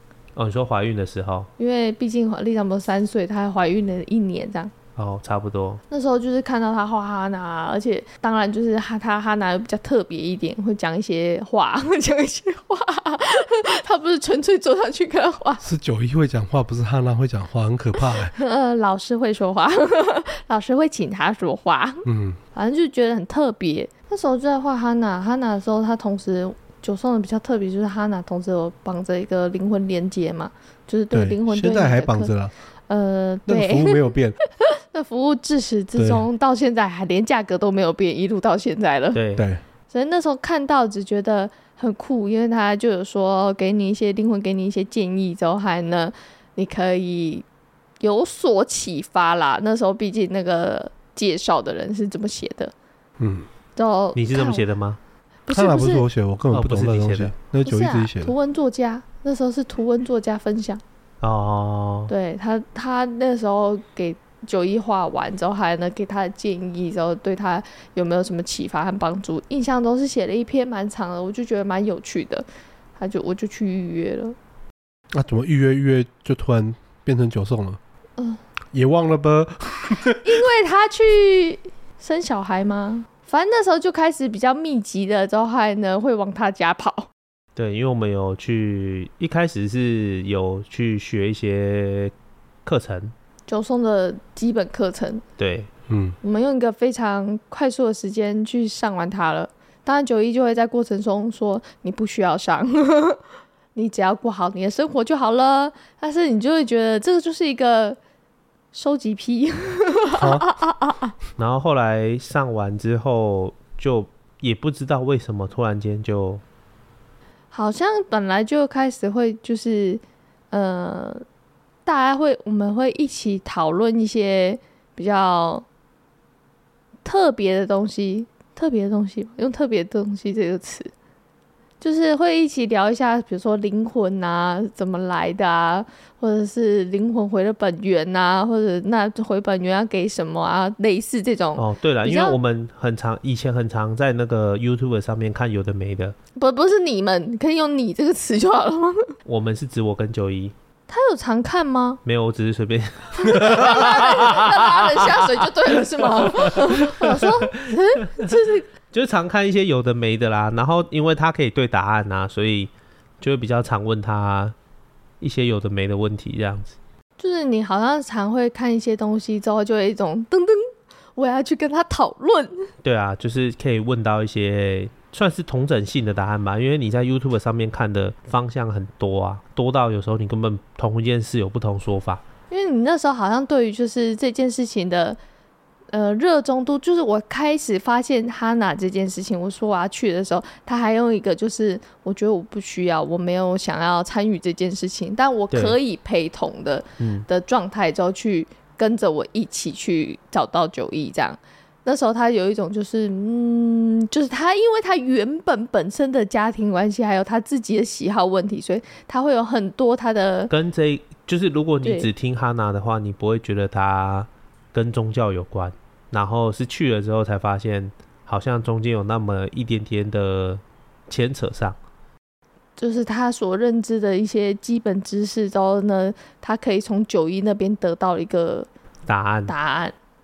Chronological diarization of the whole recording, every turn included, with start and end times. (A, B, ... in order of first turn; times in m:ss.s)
0:00.4-0:01.5 A
0:01.6-0:04.7 B
0:05.0-0:05.8 A
0:05.9-0:15.6 B
0:15.6-0:18.4 C
0:18.3-0:32.3 B
0:22.0-0:22.4 C
0:31.1-0:32.5 C
0:32.9-0:39.2 B
0:33.5-0:34.4 C
0:36.0-0:36.3 C
0:39.1-0:39.5 A
0:39.4-0:39.6 C
0:39.9-0:47.4 B
0:48.0-0:52.7 B
0:53.2-0:53.5 C
0:53.8-0:54.6 B
0:54.2-0:55.0 A
0:55.5-0:56.1 B
0:55.5-0:58.3 C
0:56.5-0:57.3 A
0:57.6-1:00.8 B
1:01.2-1:02.1 A
1:02.1-1:14.4 B
1:15.1-1:17.8 C
1:18.7-1:20.3 C
1:20.2-1:27.1 B
1:27.6-1:32.1 A
1:32.6-1:33.1 A
1:33.5-1:35.2 B
1:35.4-1:35.7 A
1:35.9-1:36.2 C
1:36.2-1:43.2 B
1:43.8-1:48.0 B
1:48.7-1:51.1 B
1:50.2-1:50.5 C
1:51.4-1:56.4 A
1:57.5-2:01.2 B
2:01.8-2:05.6 B
2:07.0-2:10.9 B
2:11.8-2:22.4 B
2:21.6-2:26.2 A
2:26.4-2:29.2 B
2:29.3-2:30.5 A
2:30.9-2:32.0 B
2:32.0-2:35.4 A
2:33.2-2:38.7 B
2:36.2-2:37.5 A
2:38.9-2:44.6 A
2:45.2-2:46.8 A
2:47.2-2:52.7 B
2:52.8-3:02.2 A
3:02.5-3:05.2 B
3:05.9-3:30.5 B
3:15.5-3:15.8 A
3:17.0-3:17.3 A
3:30.5-3:41.8 A
3:31.8-3:32.1 B
3:42.8-3:48.7 B
3:49.1-3:49.5 A
3:49.5-3:50.0 B